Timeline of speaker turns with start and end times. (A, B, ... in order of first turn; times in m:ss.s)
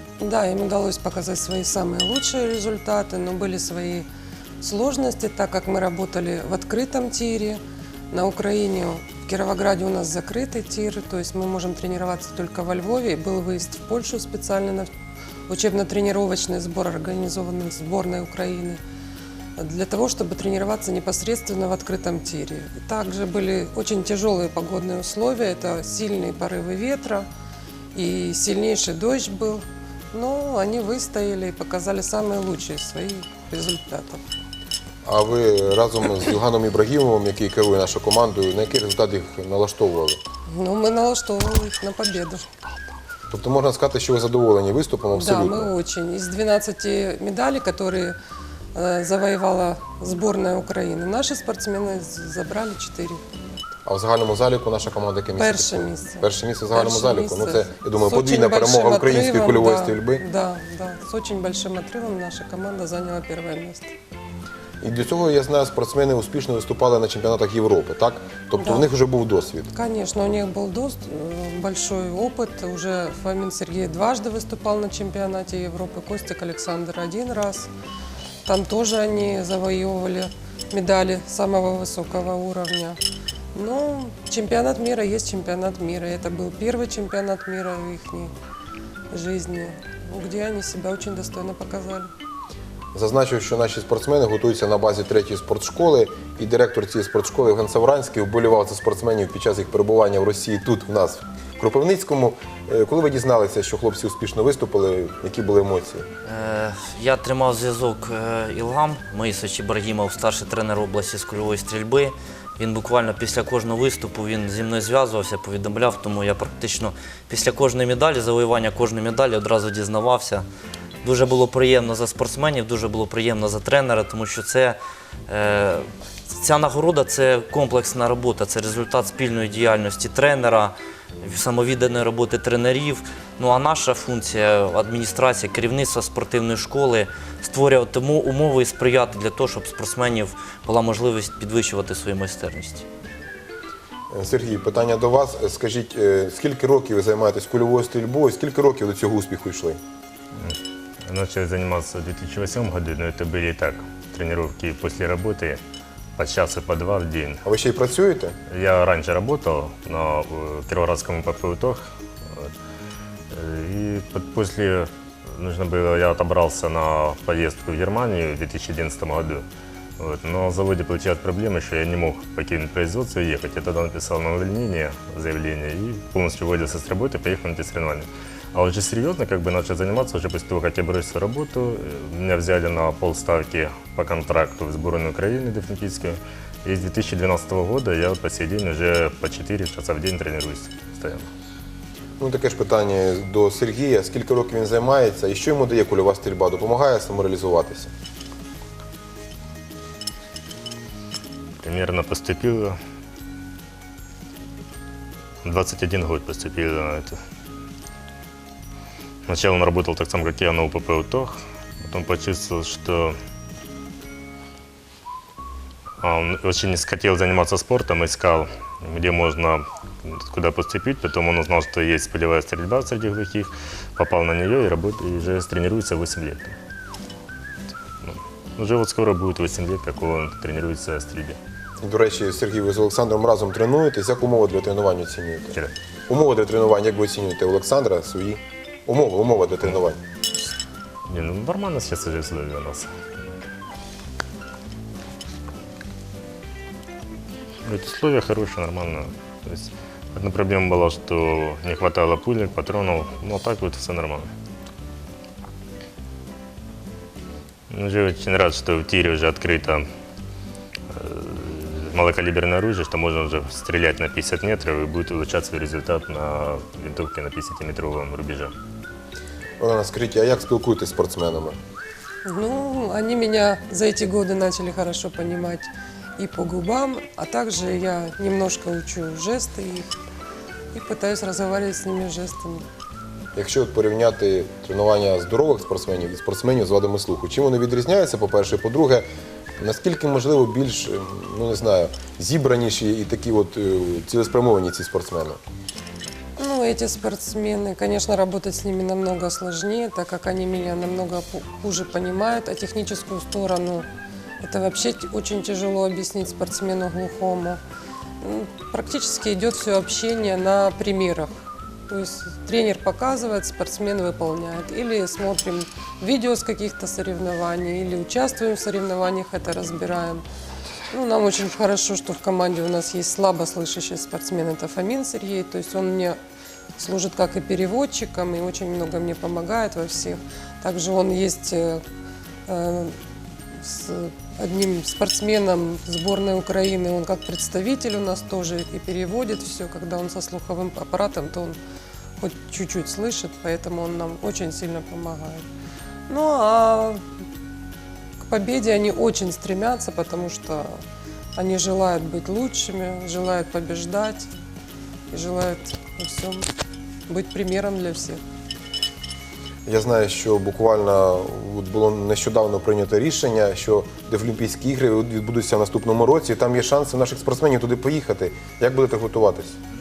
0:00.2-0:04.1 A
0:04.6-0:07.6 A
0:08.1-0:14.9 A
0:15.5-0:18.8 A
0:19.6-0:27.2 A
0:27.9-0:34.2 A
0:35.0-0:40.2 B
0:40.5-0:42.5 A
0:43.3-0:45.7 B
0:45.1-0:48.2 A
0:48.7-0:53.3 A
0:53.8-1:00.2 B
0:55.4-1:03.9 A
1:04.8-1:09.7 B
1:08.6-1:08.8 A
1:09.7-1:17.7 A
1:18.4-1:23.0 A
1:23.5-1:28.3 A
1:29.1-1:32.1 A
1:32.9-1:46.0 B
1:46.2-2:00.5 C
2:01.0-2:22.8 C
2:24.1-2:29.8 B
2:30.4-2:35.6 D
2:36.2-2:37.4 D
2:37.4-2:38.4 B
2:38.5-2:42.5 D
2:43.3-2:49.4 D
2:50.0-3:11.3 D
3:12.2-3:17.9 B
3:21.6-3:22.8 D
3:25.4-3:27.2 D
3:29.2-3:33.2 D
3:36.0-3:46.5 D
3:48.0-3:51.4 D
3:51.8-3:55.6 B
3:56.1-4:00.0 B
4:01.1-4:02.9 D
4:07.6-4:14.3 D
4:17.7-4:19.8 D
4:20.9-4:28.5 D
4:29.6-4:31.6 B
4:32.2-4:39.9 A
4:40.7-4:42.6 A
4:43.3-4:49.0 B
4:49.6-4:55.4 B
4:56.4-5:03.8 A
5:04.4-5:07.6 A
5:08.2-5:11.3 A
5:11.9-5:20.2 A
5:20.9-5:26.2 A
5:26.8-5:31.8 A
5:32.5-5:33.0 A
5:33.5-5:41.6 A
5:42.2-5:45.4 A
5:46.1-5:47.0 A
5:48.2-5:50.8 A
5:51.4-5:54.3 A
5:55.1-5:56.5 A
5:57.1-5:58.2 A
5:59.6-6:09.6 B